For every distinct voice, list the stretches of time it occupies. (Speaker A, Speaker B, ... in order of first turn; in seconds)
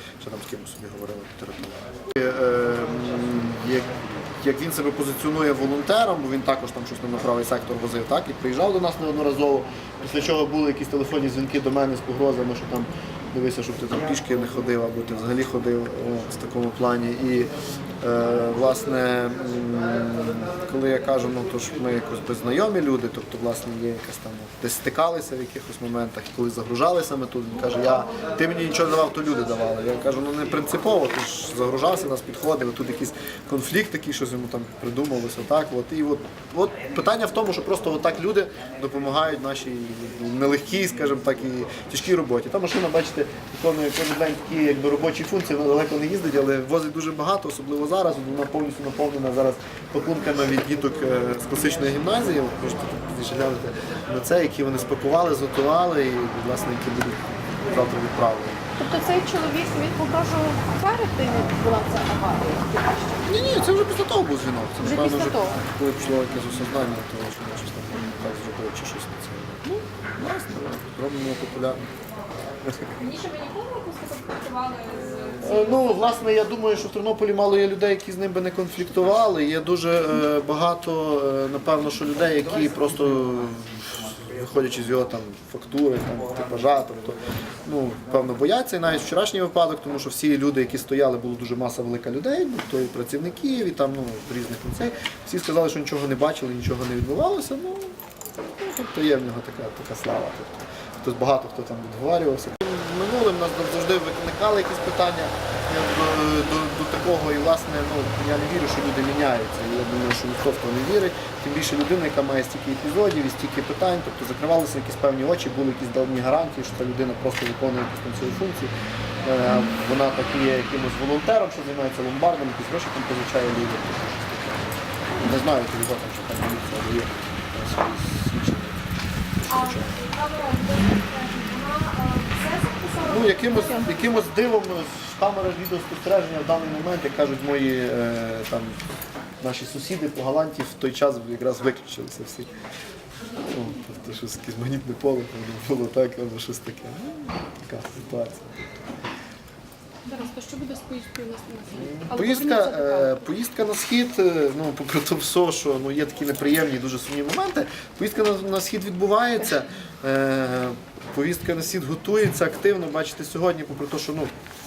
Speaker A: 0.2-58.6, 63.2-71.9, 75.4-130.0, 133.0-138.8, 139.4-142.5, 143.4-148.7, 151.8-164.3
Speaker B: 58.8-63.0, 64.8-65.6, 150.1-153.2
Speaker C: 73.0-76.0, 129.5-133.9